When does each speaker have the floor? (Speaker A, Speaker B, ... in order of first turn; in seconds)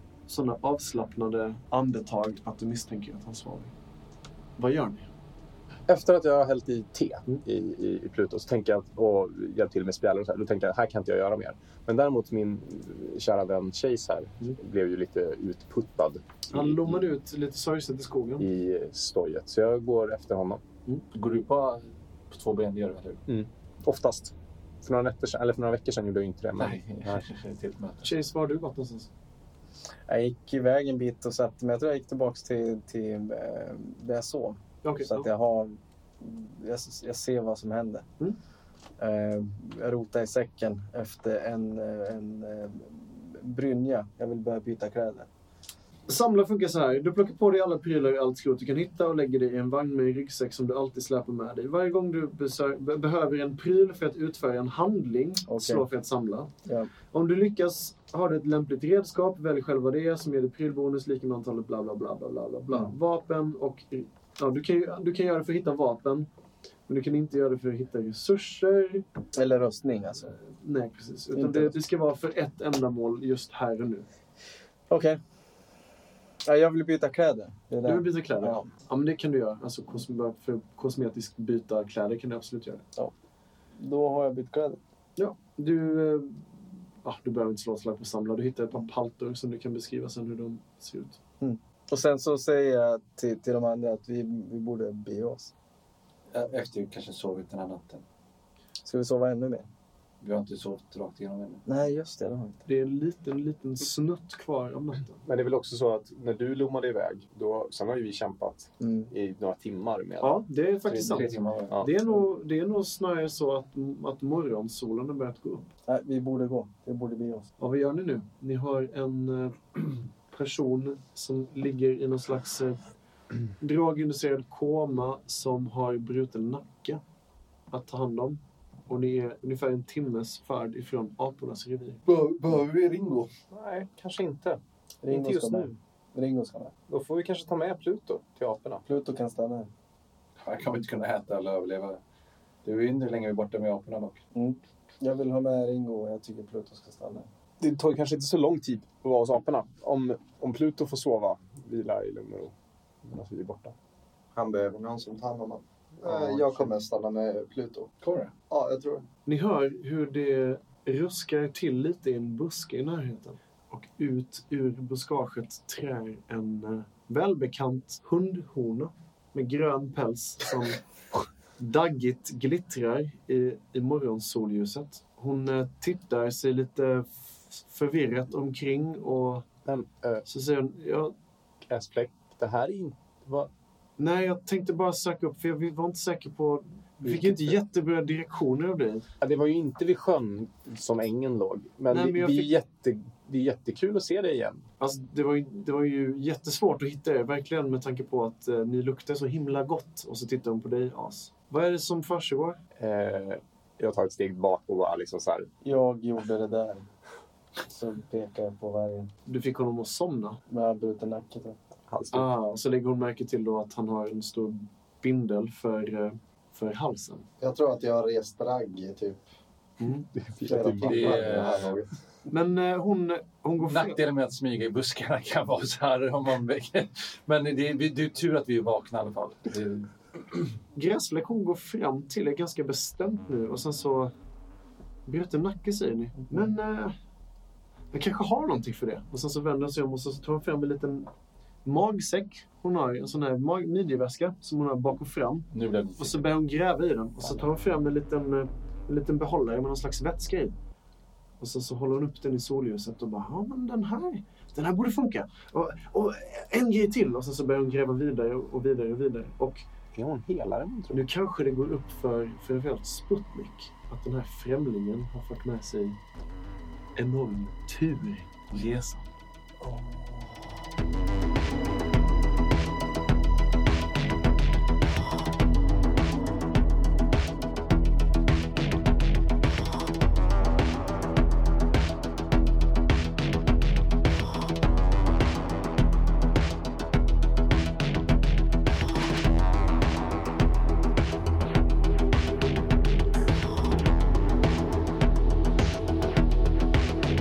Speaker A: 0.3-3.7, 4.6-5.1, 16.5-18.5, 28.0-29.1, 34.8-35.3, 46.1-56.5, 57.1-66.3, 66.9-69.0, 70.5-74.1, 77.8-82.8, 85.2-91.2, 102.7-105.2, 110.2-115.7, 117.6-122.8, 123.6-127.0, 127.7-132.0, 159.2-170.8, 171.6-179.5, 180.3-181.1, 184.0-189.1, 191.9-192.6, 194.8-202.6, 209.3-210.4, 212.1-217.2, 219.8-220.1, 222.3-224.0, 230.7-234.1, 235.1-236.9, 237.9-241.1, 241.6-250.5, 251.4-259.6, 260.9-266.0, 266.9-269.0
Speaker B: 5.9-17.0, 18.4-20.6, 23.3-27.2, 105.2-110.4, 133.5-135.7, 136.9-138.8, 147.6-153.7, 179.6-180.2, 181.6-183.5, 187.0-187.6, 189.2-194.7, 202.8-205.5, 211.9-212.3, 220.1-221.3, 259.9-261.1
Speaker C: 21.1-23.2, 26.6-28.1, 96.3-98.0, 100.2-101.6, 110.9-111.8, 132.1-133.3, 140.4-142.0, 142.6-144.2, 156.1-156.5, 158.0-158.3, 220.8-221.8, 223.6-229.9, 245.5-246.3
Speaker D: 30.1-38.1, 39.0-45.3, 55.5-55.8, 56.6-56.9, 69.3-70.3, 71.3-71.7, 74.9-75.2, 76.4-78.7, 83.8-84.8, 91.4-95.5, 98.8-99.7, 101.7-102.6, 108.8-109.1, 115.9-117.5, 135.0-136.7, 138.8-139.7, 144.3-147.3, 205.6-206.8, 207.7-209.1, 210.5-211.6
Speaker E: 154.3-157.9, 158.5-159.0, 217.4-219.2, 220.4-221.9